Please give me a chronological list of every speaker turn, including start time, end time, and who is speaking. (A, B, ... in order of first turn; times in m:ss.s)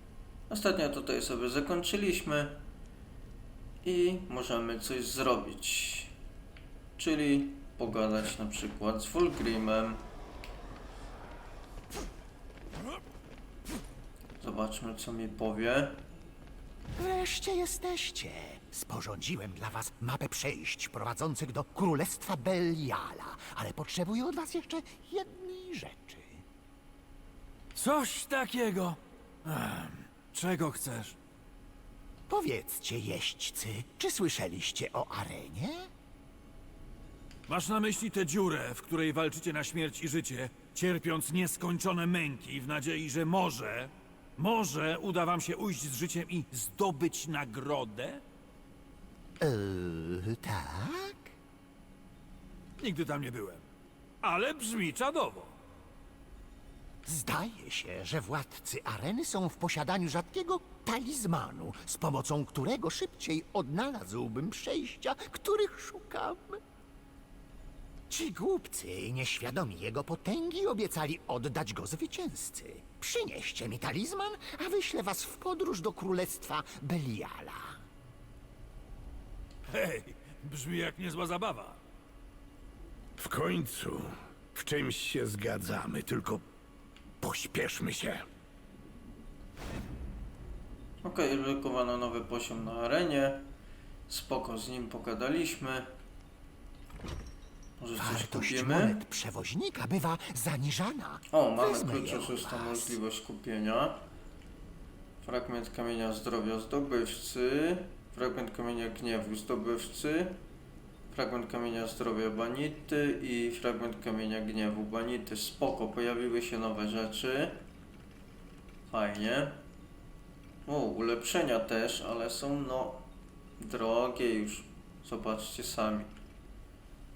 0:00.5-0:02.6 A
0:03.8-0:06.1 A
0:07.0-0:10.0 A
0:14.4-0:16.0 A
0:17.0-0:26.4 B
0:27.8-0:31.2 C
0:32.3-0:35.9 B
0:37.5-0:48.2 C
0:49.4-0:51.3 B
0:52.8-0:53.6 C
0:54.2-0:55.5 C
0:57.0-1:06.6 B
1:08.1-1:17.8 B
1:19.7-1:21.8 C
1:23.2-1:26.4 D
1:27.2-1:28.2 D
1:31.0-1:33.4 A
1:34.1-1:35.9 A
1:37.8-1:39.0 A
1:38.0-1:43.0 B
1:41.3-1:44.0 A
1:45.2-1:50.4 A
1:51.1-1:57.6 A
1:58.9-1:59.6 A
2:00.6-2:03.0 A
2:03.6-2:06.1 A